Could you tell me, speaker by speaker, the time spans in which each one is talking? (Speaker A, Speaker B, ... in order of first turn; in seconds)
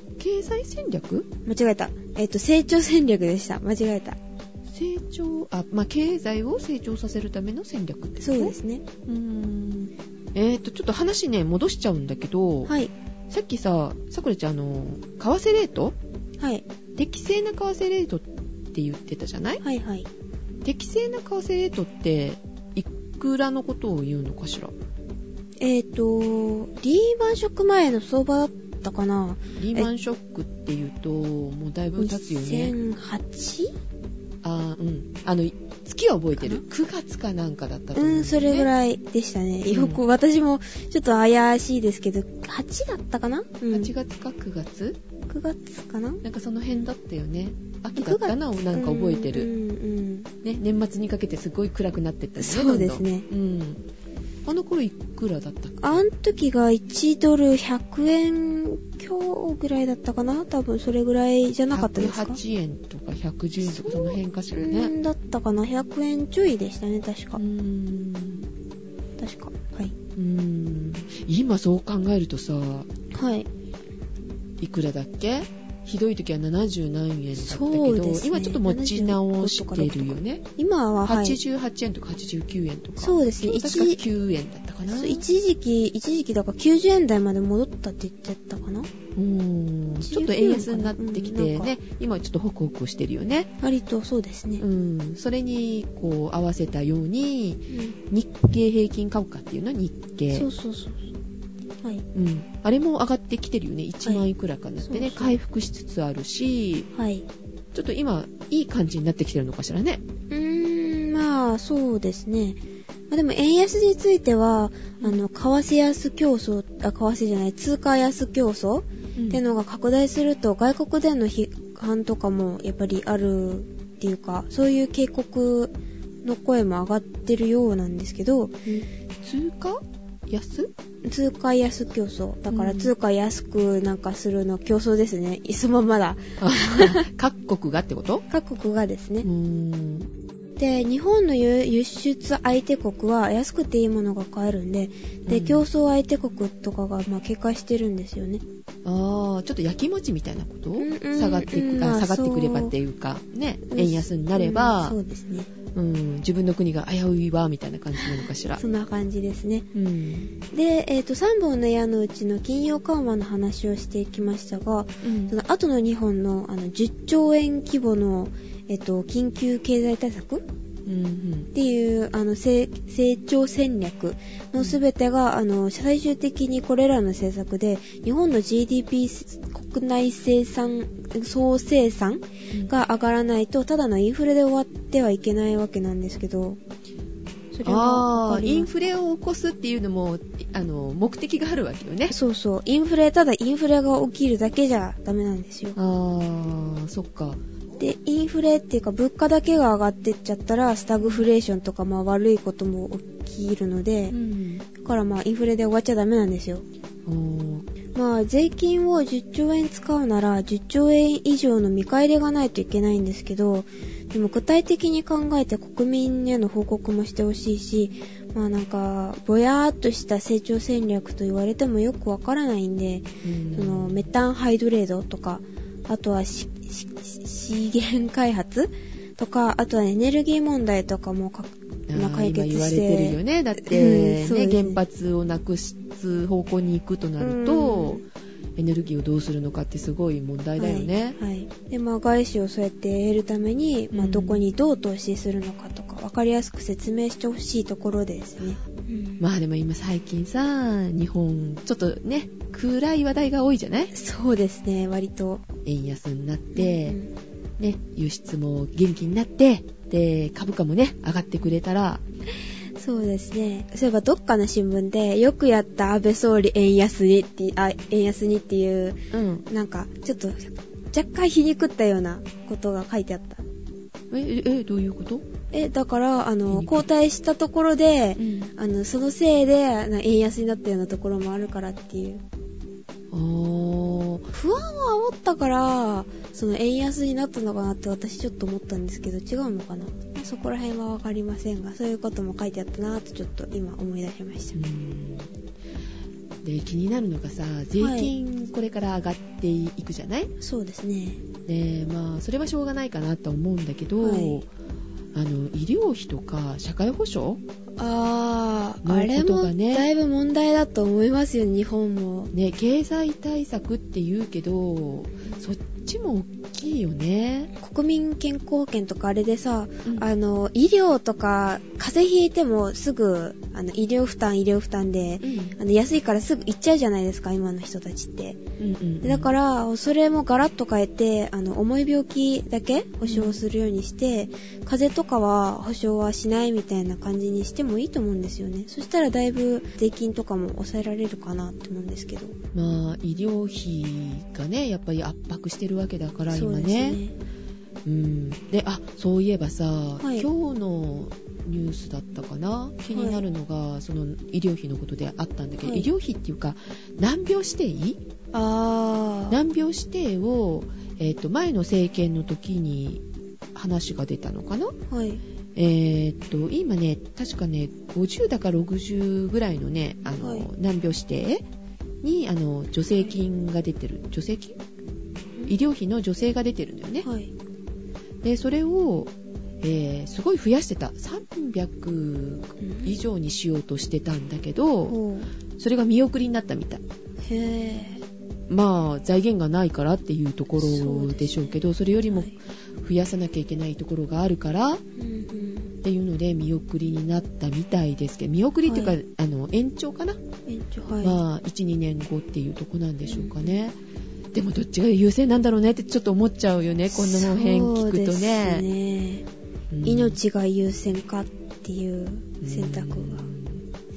Speaker A: 0.2-1.3, 4.7-8.6, 9.1-12.7, 13.3-16.0, 17.0-19.6, 20.6-24.7, 29.6-32.7, 34.4-38.7, 39.7-40.0, 43.7-45.0, 46.2-49.5, 50.4-53.8, 54.5-56.0, 61.7-64.9, 67.4-68.5, 70.2-72.9, 74.6-80.4, 81.0-85.2, 89.2-93.5, 94.6-100.5, 102.1-106.9, 107.7-110.0, 115.0-115.2, 119.2-119.4, 129.2-130.7, 132.5-132.9, 136.4-138.2, 139.2-140.1, 145.3-145.6, 148.8-155.0, 155.7-158.6, 159.7-160.3, 165.0-165.3, 170.9-171.5, 187.6-192.2, 195.8-197.4, 204.1-204.7, 207.1-207.7, 223.2-224.1, 231.9-238.0, 238.6-241.2, 243.9-244.4, 249.2-253.9, 255.7-257.0, 257.6-262.0, 269.1-269.4, 274.1-275.2, 276.5-276.9, 278.2-278.5, 283.1-284.3, 294.5-295.3, 296.4-300.3, 301.5-304.5, 305.1-307.4, 308.8-309.9, 312.3-317.5, 325.2-325.6, 328.6-329.3, 333.1-333.4, 342.5-347.0, 347.9-358.0, 359.3-363.0, 363.5-364.8, 365.5-371.5, 372.0-374.6, 375.5-377.1, 378.2-385.0, 385.6-386.8, 388.5-394.8, 395.8-400.2, 401.0-403.8, 404.3-408.7, 409.7-410.2, 412.4-413.6
Speaker B: 1.5-4.2, 8.2-8.8, 19.6-20.1, 25.6-29.9, 32.0-33.7, 36.4-36.6, 38.0-43.9, 45.3-46.2, 48.0-50.3, 52.4-53.2, 55.8-62.4, 63.6-67.4, 69.2-69.9, 73.1-73.5, 77.4-81.4, 83.0-84.0, 84.9-88.9, 90.0-91.8, 93.6-94.6, 97.7-98.0, 100.3-101.1, 104.8-105.4, 107.0-107.2, 110.3-112.6, 113.1-128.8, 131.1-137.1, 138.3-139.3, 140.6-148.4, 150.8-152.7, 153.7-155.5, 158.0-159.7, 160.5-170.4, 171.5-186.6, 187.5-188.7, 192.1-195.8, 197.8-204.2, 204.8-206.7, 207.9-234.8, 237.2-238.0, 240.6-249.2, 253.9-255.4, 256.5-257.1, 262.8-273.5, 275.5-282.2, 284.3-294.6, 297.8-298.1, 300.4-301.2, 304.0-304.4, 307.8-312.3, 317.6-328.4, 329.0-342.4, 346.3-347.2, 350.0-350.3, 352.9-353.2, 358.3-359.4, 364.9-365.2, 370.2-370.5, 377.0-377.3, 382.6-383.0, 384.9-385.3, 387.2-388.0, 390.6-392.4, 395.0-395.7, 398.6-399.0, 400.5-401.2, 403.1-403.6, 406.9-409.2, 409.8-413.3